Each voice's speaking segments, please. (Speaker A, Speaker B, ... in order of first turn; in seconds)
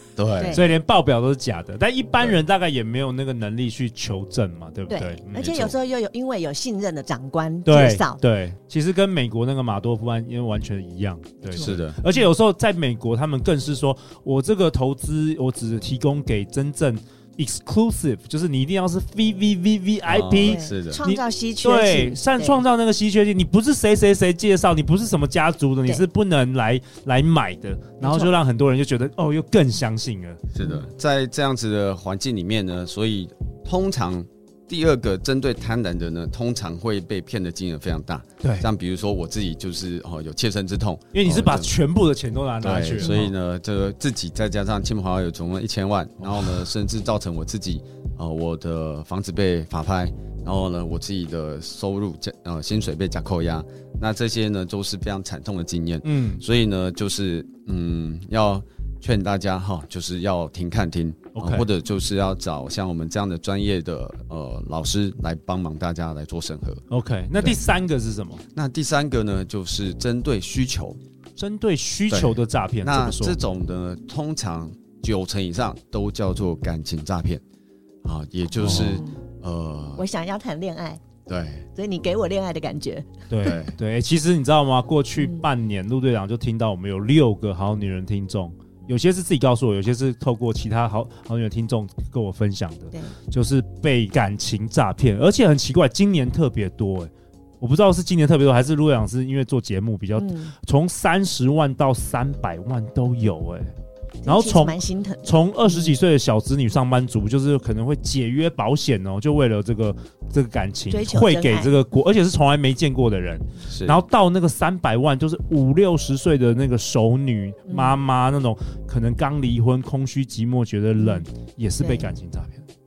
Speaker A: 0.1-0.6, 5.4-5.7, 11.6-12.0, 20.1-21.0, 30.5-41.7, 42.6-66.8, 68.5-71.0, 72.1-77.4, 78.0-80.0, 81.3-81.7, 83.4-83.7, 113.7-114.0
Speaker B: 0.3-0.6, 4.9-8.2, 20.4-22.6, 28.0-28.3, 30.6-30.8, 78.8-79.1, 80.0-81.0, 81.7-83.3, 100.1-100.5, 104.2-106.0, 110.9-111.7, 117.7-118.0, 121.0-121.2, 121.8-122.1
Speaker C: 0.5-5.5, 7.6-30.4, 38.4-38.7, 41.1-43.3, 46.2-46.6, 56.0-56.4, 61.3-61.7, 66.9-68.4, 71.4-73.4, 78.5-79.0, 83.3-103.7, 104.2-122.6